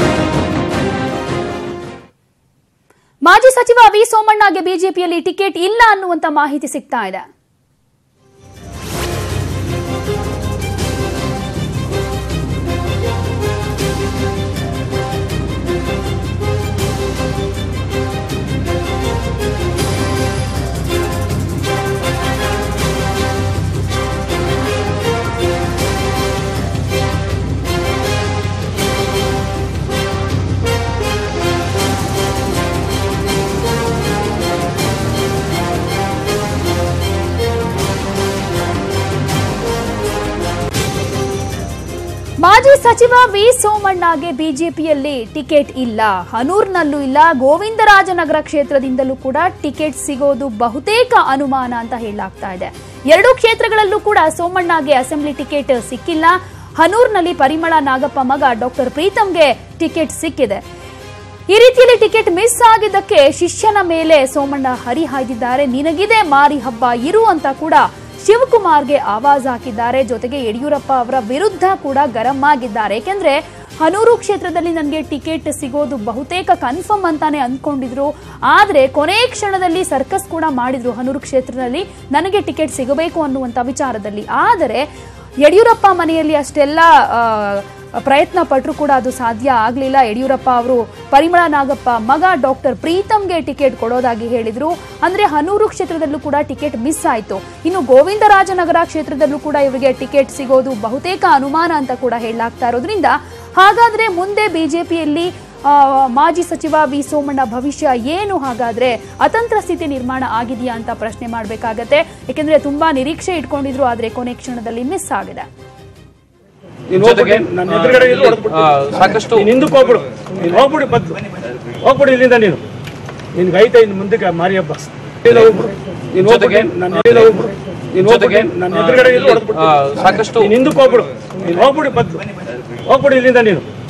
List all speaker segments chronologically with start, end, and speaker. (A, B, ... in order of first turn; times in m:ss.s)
0:03.2-0:07.2 A
0:42.4-1:00.6 A
1:01.5-1:24.8 A
1:25.4-1:55.5 A
1:56.9-1:58.6 B
1:57.1-1:57.4 C
1:58.0-1:59.5 C
1:59.3-2:01.2 B
2:01.7-2:02.6 B
2:03.3-2:09.5 B
2:09.3-2:10.6 C
2:10.4-2:13.7 B